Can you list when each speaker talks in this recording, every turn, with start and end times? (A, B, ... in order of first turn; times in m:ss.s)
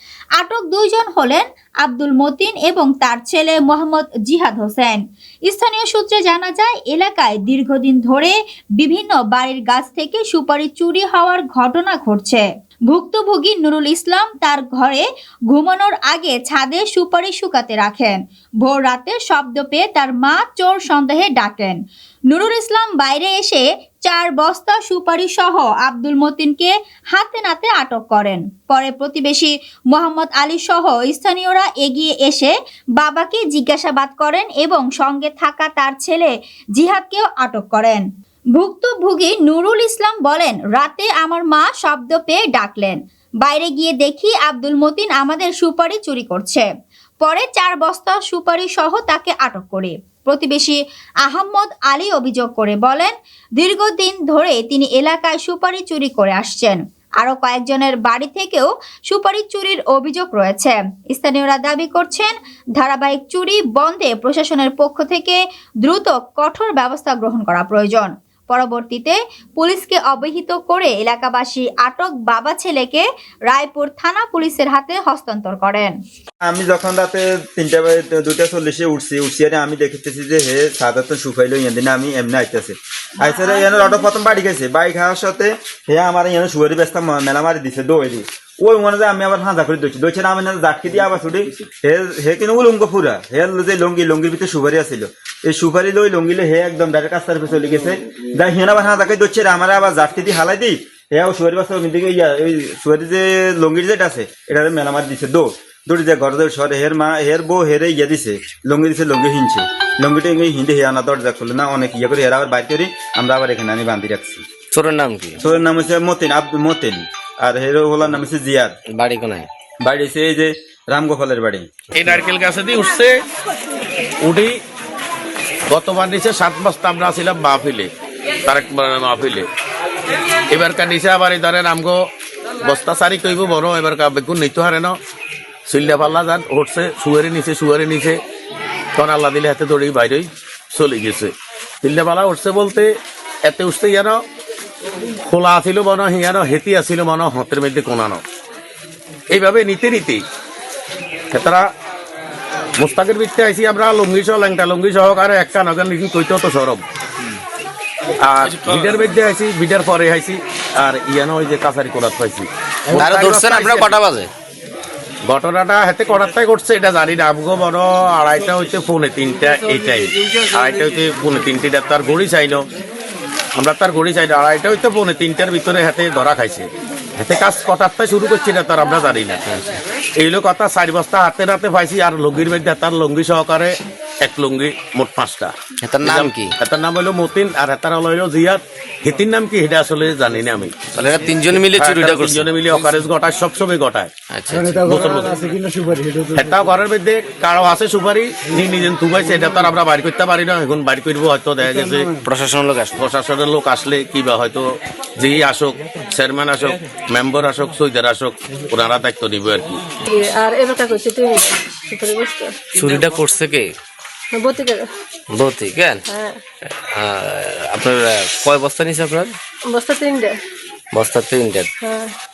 0:00.4-0:21.8 A
0:22.3-0:38.0 A
0:38.6-0:46.7 A
0:47.2-1:16.0 A
1:16.4-1:54.4 B
1:23.2-1:24.0 A
1:54.7-1:55.4 C
1:55.4-1:58.8 B
1:58.9-1:59.5 C
1:59.8-2:01.7 B
2:01.9-2:03.2 D
2:04.2-2:04.6 D
2:05.7-2:07.9 D
2:08.4-2:09.5 D
2:10.5-2:12.1 D
2:12.6-2:15.0 D
2:15.7-2:18.2 D
2:19.0-2:24.2 D
2:25.2-2:28.2 D
2:29.3-2:30.2 D
2:31.3-2:31.7 D
2:32.8-2:36.8 D
2:38.2-2:44.0 D
2:42.9-2:44.3 C
2:45.2-2:52.7 D
2:53.6-2:59.4 D
3:00.2-3:10.8 D
3:05.8-3:06.5 C
3:10.9-3:12.5 C
3:11.5-3:14.1 D
3:14.3-3:15.0 C
3:14.8-3:15.6 D
3:16.3-3:22.2 D
3:22.2-3:23.0 C
3:23.0-3:29.8 D
3:30.1-3:32.6 E
3:32.7-3:33.8 C
3:34.3-3:34.9 E
3:35.3-3:36.0 C
3:36.1-3:36.4 E
3:36.6-3:39.4 C
3:39.7-3:40.4 E
3:40.9-3:41.7 C
3:41.8-3:42.1 E